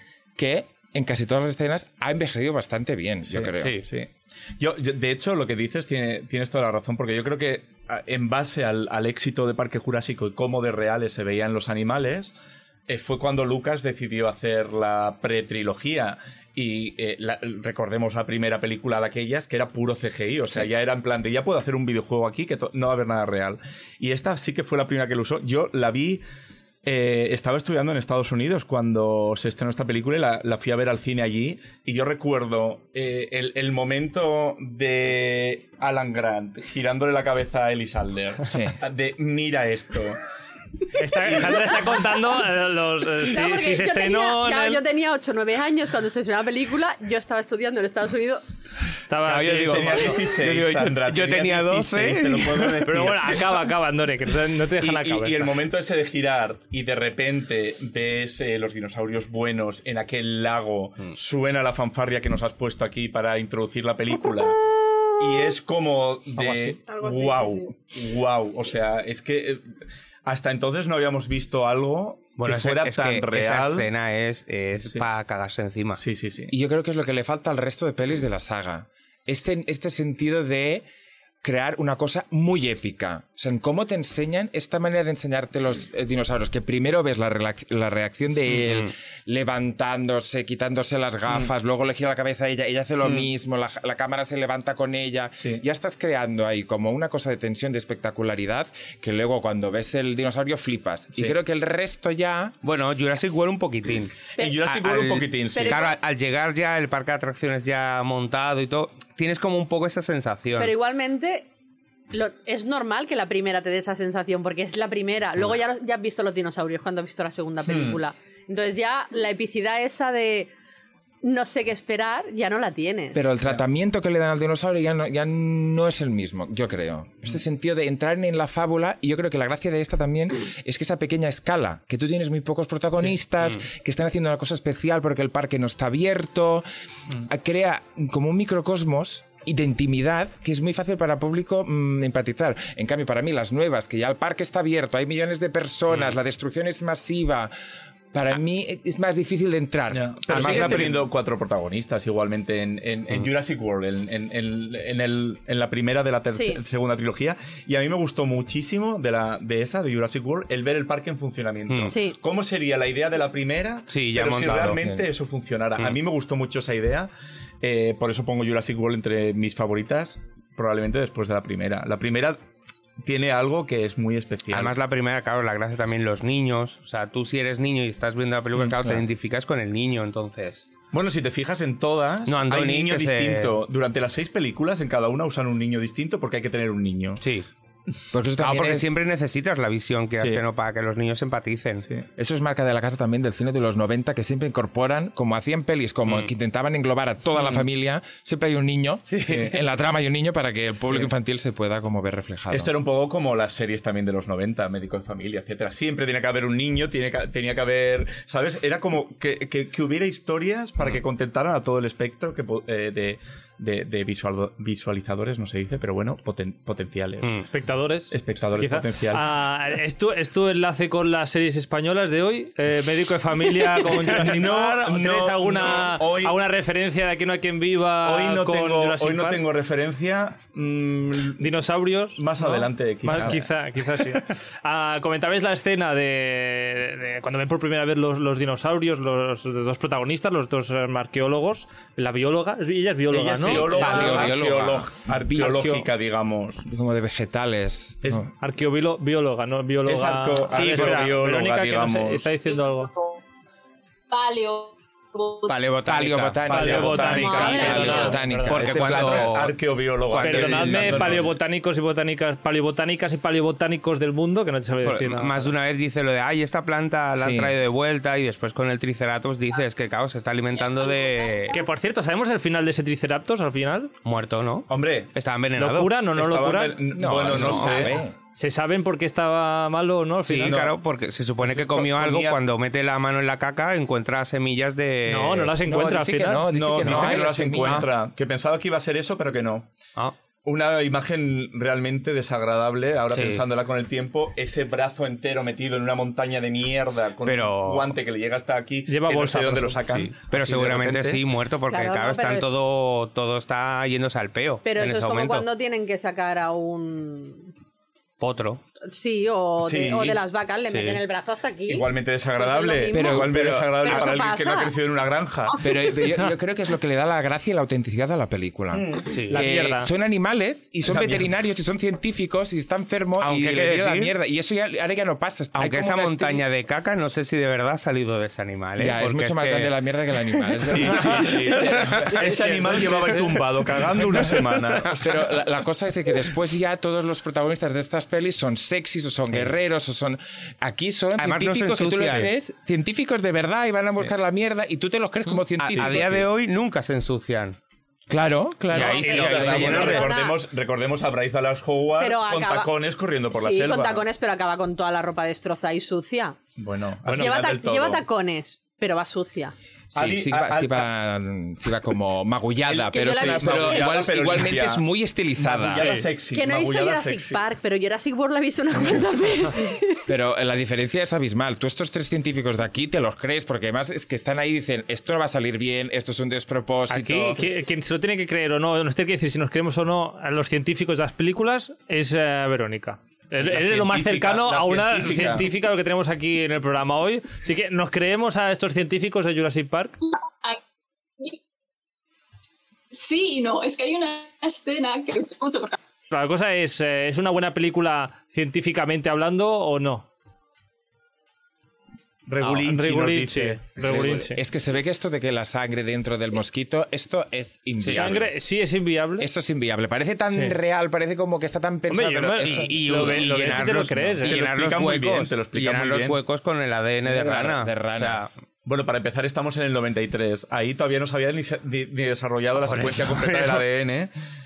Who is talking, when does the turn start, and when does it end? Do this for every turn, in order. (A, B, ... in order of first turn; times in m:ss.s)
0:00.4-0:03.8 A
0:03.2-0:12.3 B
0:12.9-0:26.2 B
0:26.8-0:40.2 B
0:38.5-0:38.8 A
0:41.0-0:44.8 C
0:41.3-0:41.6 B
0:43.2-0:48.4 D
0:49.0-0:50.1 C
0:49.3-0:52.8 E
0:49.6-0:53.5 B
0:52.8-0:55.6 C
0:54.8-1:04.6 B
1:05.2-1:09.7 B
1:06.8-1:07.7 D
1:10.2-1:13.9 B
1:12.4-1:16.0 E
1:16.0-1:16.5 B
1:16.5-1:20.9 A
1:21.4-1:42.6 A
1:42.6-1:50.7 E
1:44.4-1:45.8 B
1:44.4-1:44.7 D
1:45.5-1:45.9 D
1:50.6-1:51.5 D
1:52.1-2:00.5 D
1:57.7-1:58.0 B
2:01.2-2:03.3 D
2:03.1-2:16.6 A
2:17.2-2:27.5 A
2:28.1-2:31.0 A
2:29.9-2:47.1 B
2:30.4-2:30.9 E
2:36.3-2:36.6 D
2:41.7-2:41.9 E
2:41.9-2:42.2 D
2:43.9-2:44.8 E
2:44.6-2:45.1 A
2:47.6-2:52.4 B
2:53.0-2:54.7 B
2:54.5-3:00.7 E
3:00.9-3:07.2 B
3:02.3-3:03.5 E
3:07.2-3:07.5 E
3:08.1-3:08.9 A
3:08.4-3:11.9 E
3:10.2-3:10.4 B
3:12.2-3:22.7 A
3:19.1-3:19.4 E
3:19.2-3:19.6 B
3:22.5-3:37.3 B
3:37.5-3:49.4 C
3:38.1-3:39.3 B
3:44.0-3:46.4 B
3:48.0-3:51.5 B
3:51.4-4:04.2 C
3:52.2-3:53.5 B
4:03.1-4:06.6 B
4:03.5-4:05.7 A
4:05.4-4:05.8 C
4:06.6-4:08.3 A
4:08.0-4:08.3 B
4:08.4-4:12.9 C
4:09.8-4:12.3 B
4:10.6-4:11.0 E
4:12.7-4:13.2 F
4:14.1-4:15.6 F
4:15.5-4:19.5 E
4:15.8-4:19.5 A
4:16.4-4:21.4 B
4:16.5-4:18.6 C
4:17.2-4:18.1 D
4:20.1-4:21.3 E
4:20.2-4:25.5 C
4:24.8-4:31.6 E
4:27.1-4:27.5 A
4:30.5-4:31.6 F
4:31.5-4:33.9 C
4:34.0-4:36.0 E
4:34.7-4:35.1 B
4:35.6-4:36.8 C
4:36.1-4:38.0 B
4:36.9-4:38.2 A
4:37.2-4:37.9 E
4:38.3-4:40.6 C
4:40.2-4:45.6 E
4:40.4-4:40.8 B
4:41.4-4:42.4 B
4:45.1-4:46.5 C
4:45.6-4:47.9 A
4:46.5-4:49.7 B
4:46.8-4:47.8 E
4:50.4-5:01.2 B
4:53.1-4:53.4 E
4:57.2-4:58.0 E
4:58.9-4:59.8 C
4:59.9-5:05.5 E
5:01.7-5:02.5 D
5:04.6-5:07.5 D
5:08.2-5:08.6 E
5:08.9-5:14.8 D
5:09.6-5:10.2 B
5:10.7-5:11.0 E
5:11.6-5:15.6 B
5:12.9-5:14.0 A
5:15.5-5:15.8 F
5:15.6-5:26.4 A
5:18.7-5:19.1 B
5:19.1-5:19.5 E
5:19.3-5:19.9 C
5:20.9-5:21.3 B
5:23.2-5:24.1 E
5:25.6-5:32.4 E
5:28.8-5:32.8 A
5:30.6-5:35.3 B
5:34.9-5:46.3 A
5:41.2-5:42.3 E
5:45.6-5:47.6 E
5:45.8-5:46.0 B
5:48.1-5:49.9 A
5:48.7-5:50.1 E
5:48.7-5:50.0 C
5:48.9-5:54.0 B
5:49.8-5:50.4 D
5:52.0-5:52.7 D
5:53.3-5:56.4 D
5:56.6-5:58.0 B
5:57.1-5:57.4 C
5:57.1-5:59.5 D
5:59.9-6:00.9 B
5:59.9-6:05.9 A
6:02.7-6:04.9 B
6:02.9-6:04.0 D
6:05.4-6:07.4 B
6:06.3-6:10.0 D
6:10.1-6:17.4 A
6:16.9-6:30.0 C
6:23.4-6:25.5 B
6:32.9-6:35.8 F
6:36.1-6:40.1 C
6:42.2-6:44.2 B
6:42.5-6:44.4 C
6:43.8-6:48.3 A
6:47.8-6:49.3 C
6:47.8-6:48.2 E
6:49.2-6:53.2 A
6:50.3-6:50.6 C
6:51.9-6:54.4 C
6:52.4-6:58.3 E
6:54.2-6:56.2 B
6:57.0-6:58.3 A
6:58.6-7:04.1 B
7:02.8-7:03.0 E